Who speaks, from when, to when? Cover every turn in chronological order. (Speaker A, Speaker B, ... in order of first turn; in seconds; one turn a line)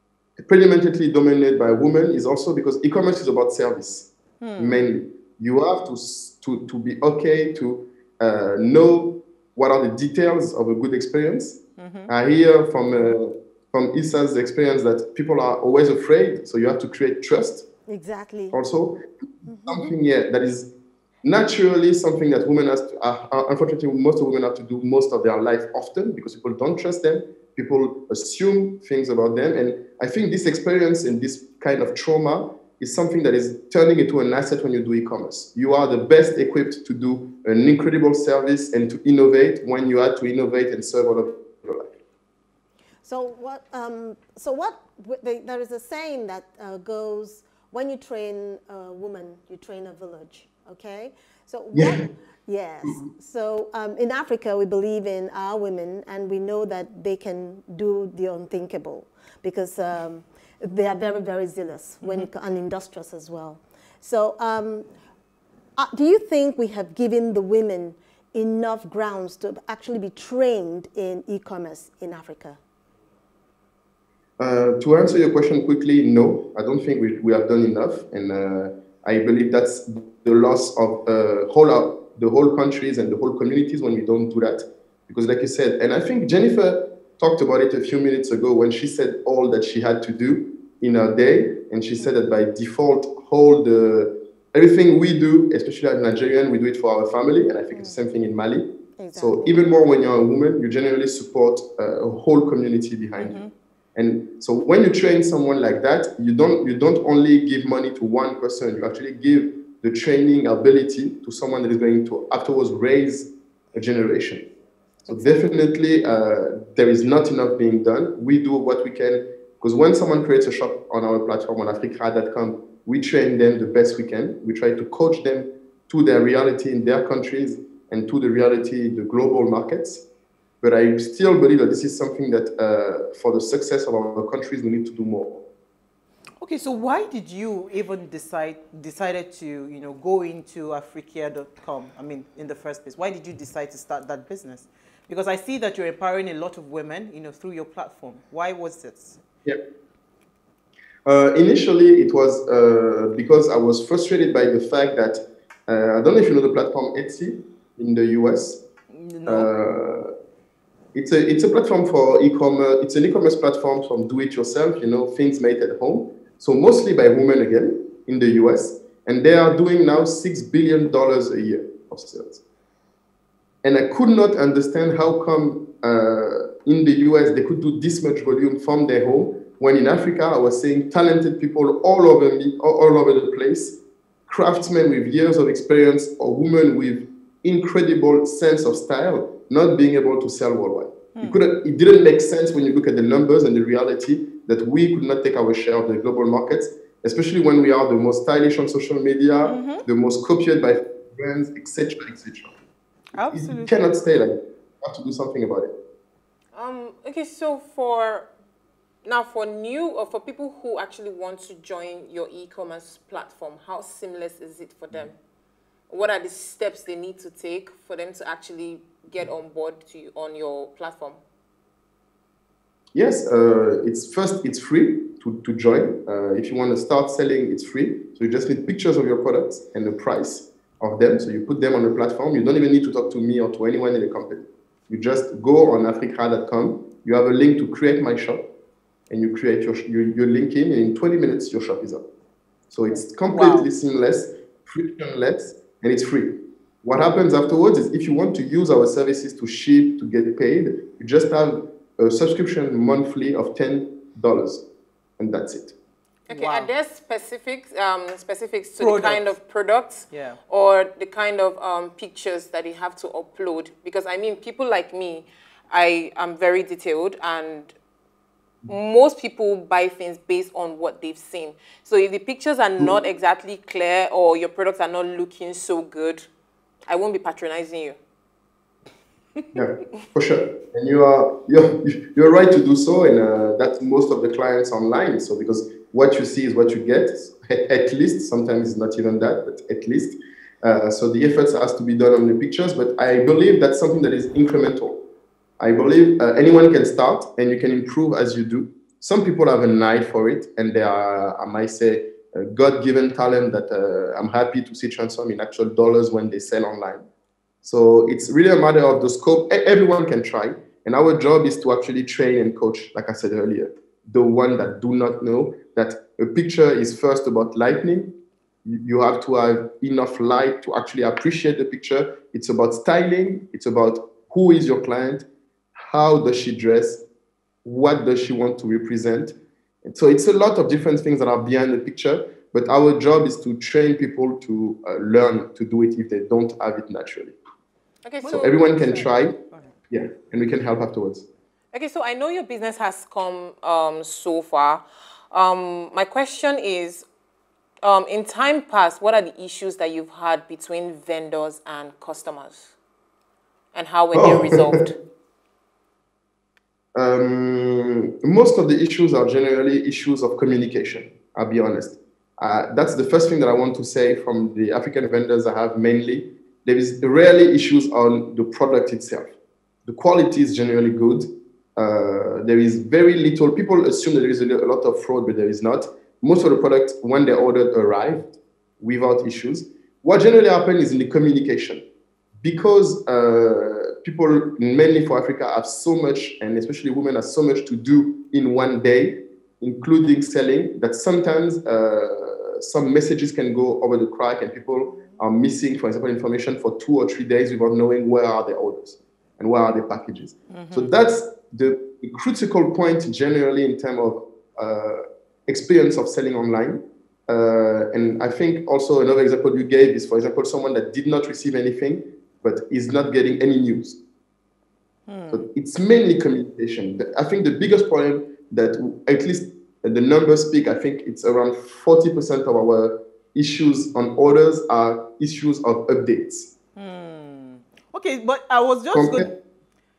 Speaker A: 0.4-17.7
Speaker B: 4.4-4.8
Speaker B: 11.8-12.1
Speaker C: 17.9-18.6
Speaker A: 18.5-19.0
Speaker C: 19.4-19.9
Speaker A: 19.6-20.7
Speaker A: 21.2-41.9
Speaker C: 43.0-64.9
Speaker A: 51.7-52.1
Speaker C: 65.8-72.6
Speaker A: 74.4-103.4
Speaker C: 97.7-98.0
Speaker C: 99.0-99.6
Speaker B: 103.2-103.5
Speaker A: 103.9-114.5
Speaker C: 115.0-115.5
Speaker A: 115.1-130.0
Speaker A: 130.6-135.4
Speaker B: 136.4-149.2
Speaker A: 151.1-158.6
Speaker B: 158.9-159.5
Speaker A: 159.2-160.1
Speaker A: 160.9-172.4
Speaker A: 173.6-202.5
Speaker B: 199.4-199.8
Speaker B: 203.1-203.8
Speaker A: 203.2-205.7
Speaker D: 206.5-208.3
Speaker D: 209.0-215.1
Speaker D: 215.9-221.2
Speaker A: 222.9-238.5
Speaker A: 239.1-242.0
Speaker A: 242.7-254.6
Speaker B: 243.3-243.7
Speaker A: 255.2-255.7
Speaker B: 256.3-256.7
Speaker D: 256.3-267.7
Speaker B: 258.8-259.4
Speaker B: 260.1-260.4
Speaker D: 268.6-276.2
Speaker D: 276.9-277.9
Speaker A: 279.5-295.0
Speaker A: 295.6-307.1
Speaker A: 307.6-318.1
Speaker A: 318.6-325.2
Speaker A: 325.8-327.0
Speaker A: 327.6-337.4
Speaker D: 338.0-339.1
Speaker A: 338.2-339.4
Speaker A: 339.9-341.2
Speaker D: 341.7-347.1
Speaker D: 347.8-352.7
Speaker D: 353.7-355.0
Speaker A: 354.1-354.8
Speaker A: 356.9-369.3
Speaker A: 369.9-381.8
Speaker A: 382.4-414.0
Speaker B: 400.5-400.9
Speaker B: 415.1-415.4
Speaker A: 415.3-426.5
Speaker B: 426.8-429.3
Speaker A: 428.9-429.3